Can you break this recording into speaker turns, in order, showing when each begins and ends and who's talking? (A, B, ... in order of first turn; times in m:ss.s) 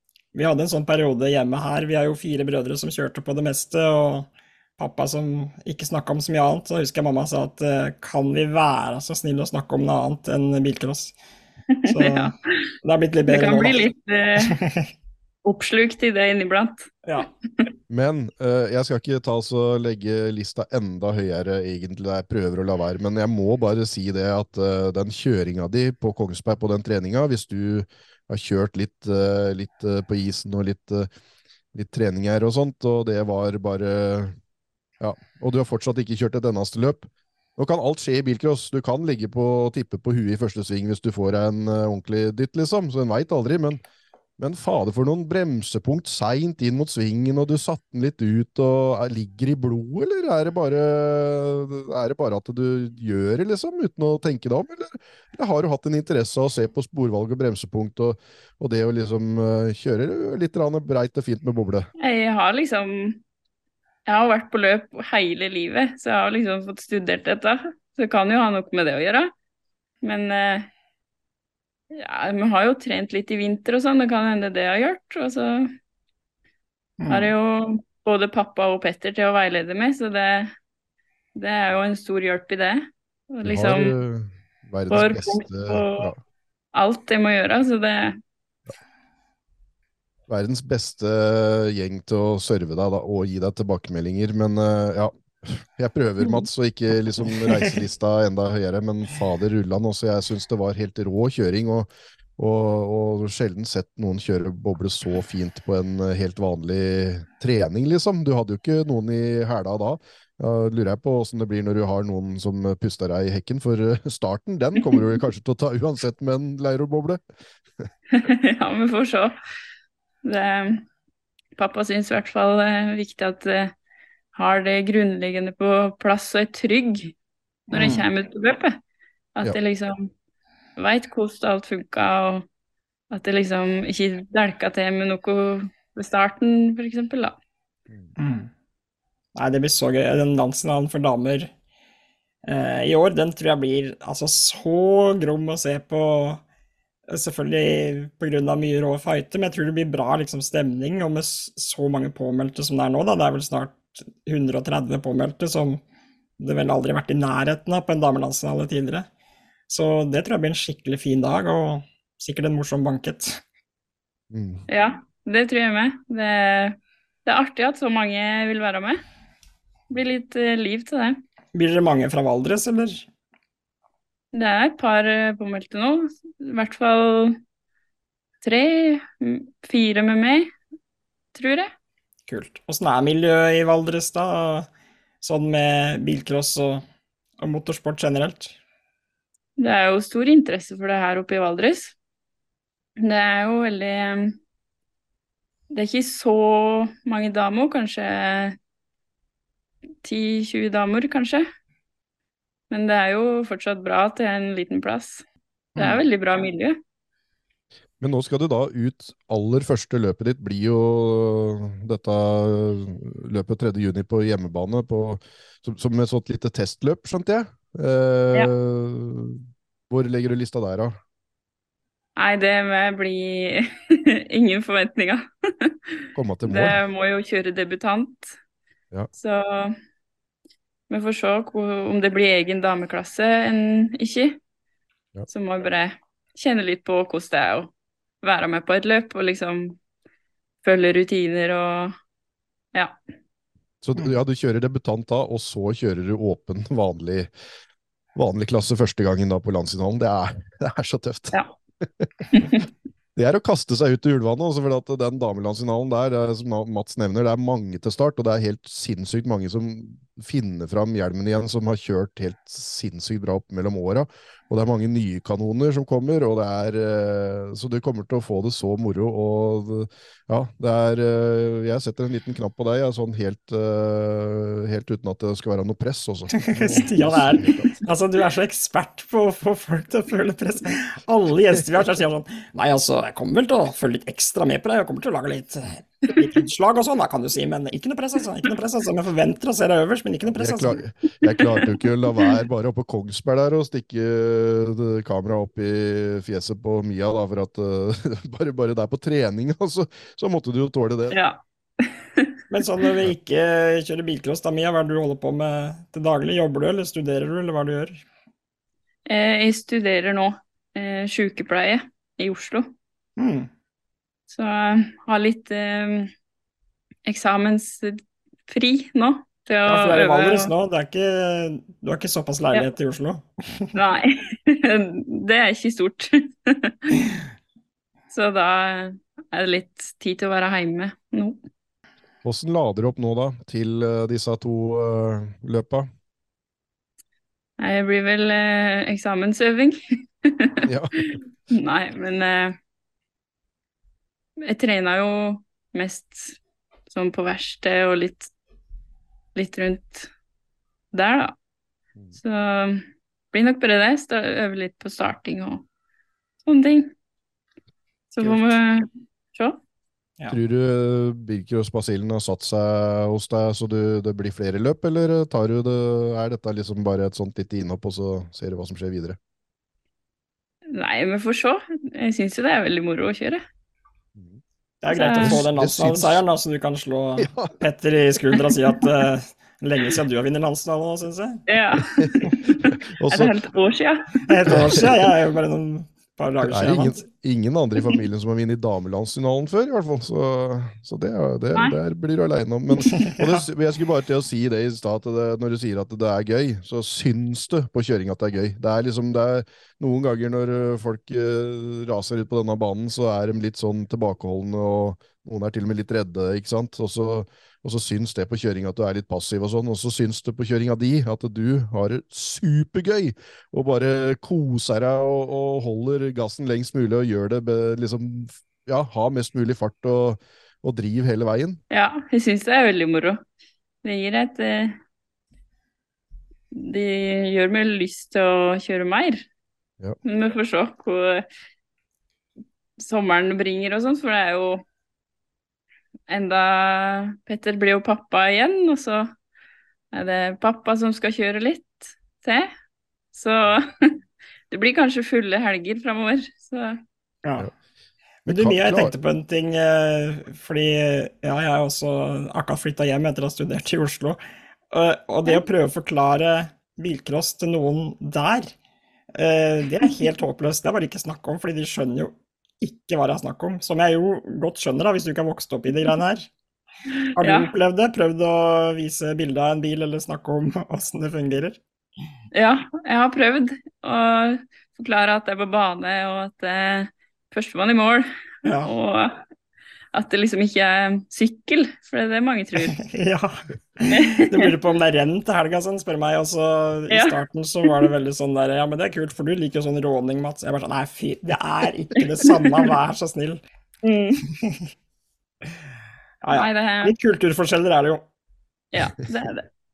0:00.4-0:11.2 A
0:11.7-0:12.7 B
0:11.9-0:13.8 A
0:13.3-0:14.6 B
0:14.4-0:14.9 A
0:15.4-0:17.7 B
0:17.9-0:31.1 C
0:31.7-0:34.4 C
0:35.0-0:43.8 C
0:44.4-1:01.9 C
1:02.0-1:03.2 B
1:04.1-1:09.3 B
1:10.0-1:10.7 B
1:11.9-1:15.7 B
1:17.0-1:17.3 A
1:17.1-1:20.6 B
1:21.4-1:24.0 B
1:23.4-1:26.2 C
1:24.9-1:26.1 B
1:26.7-1:28.2 B
1:30.3-1:57.2 C
1:37.5-1:37.7 A
1:58.1-1:59.4 B
2:00.2-2:00.8 B
2:01.6-2:03.7 B
2:04.4-2:07.1 B
2:07.7-2:08.8 B
2:07.7-2:08.0 C
2:07.7-2:08.0 A
2:09.4-2:10.1 B
2:10.8-2:12.5 B
2:13.1-2:17.4 B
2:18.2-2:18.5 A
2:19.4-2:21.5 A
2:22.5-2:26.4 A
2:27.1-2:35.8 A
2:36.4-2:39.1 A
2:39.7-2:43.4 A
2:44.3-2:44.6 C
2:44.7-2:49.0 B
2:49.9-2:51.2 B
2:51.5-2:53.1 A
2:54.3-2:57.4 B
2:58.4-3:00.5 B
3:01.4-3:01.7 B
3:02.3-3:04.7 A
3:05.2-3:06.8 A
3:07.4-3:08.6 A
3:09.6-3:12.0 B
3:13.0-3:14.4 B
3:15.7-3:18.6 B
3:20.0-3:21.5 B
3:22.7-3:25.2 B
3:25.8-3:26.0 A
3:25.8-3:26.8 B
3:28.0-3:41.0 C
3:42.2-3:48.4 B
3:46.2-3:46.8 C
3:49.2-3:49.8 B
3:50.9-3:54.4 B
3:55.3-3:59.8 B
4:00.6-4:02.0 B
4:03.8-4:07.3 C
4:08.2-4:12.6 C
4:12.3-4:12.6 B
4:13.2-4:37.8 C
4:36.4-4:50.8 A
4:50.3-5:01.2 C
5:01.1-5:02.4 B
5:02.5-5:08.0 A
5:09.1-5:12.7 B
5:13.2-5:13.5 A
5:14.3-5:16.1 B
5:17.1-5:20.5 B
5:19.7-5:23.7 A
5:23.8-5:27.1 B
5:28.1-5:31.4 B
5:32.2-5:35.9 C
5:37.6-5:42.6 B
5:40.6-5:41.2 C
5:44.4-5:46.4 B
5:46.9-5:48.3 B
5:49.4-5:50.1 B
5:50.9-5:51.4 B
5:52.2-5:55.6 B
5:56.4-5:56.9 B
5:58.1-5:59.6 B
5:58.2-5:58.6 C
6:00.3-6:09.2 C
6:10.7-6:13.4 B
6:14.2-6:14.4 C
6:14.8-6:21.4 A
6:14.9-6:15.4 B
6:15.2-6:16.2 C
6:17.2-6:17.6 C
6:18.3-6:18.9 B
6:21.5-6:24.6 B
6:21.8-6:23.3 C
6:24.2-6:27.0 A
6:24.5-6:24.9 C
6:26.4-7:01.6 C
6:32.8-6:33.4 A
7:01.7-7:03.2 B
7:03.8-7:04.8 B
7:06.5-7:09.2 B
7:10.0-7:11.3 B
7:12.8-7:14.6 B
7:16.1-7:19.1 B
7:19.9-7:22.5 B
7:23.1-7:24.0 B
7:24.5-7:26.8 B
7:28.3-7:34.2 A
7:28.3-7:29.0 C
7:34.7-7:38.5 A
7:39.2-7:46.3 A
7:47.2-7:51.6 A
7:47.2-7:47.5 B
7:52.3-7:58.1 B
7:58.4-7:58.7 A
7:58.6-7:59.2 B
7:59.9-8:02.8 B
8:02.6-8:13.4 A
8:03.9-8:04.5 B
8:06.9-8:07.9 B
8:12.3-8:12.7 B
8:13.8-8:14.2 B
8:14.3-8:14.7 A
8:16.2-8:18.1 A
8:16.3-8:17.0 B
8:18.7-8:19.5 B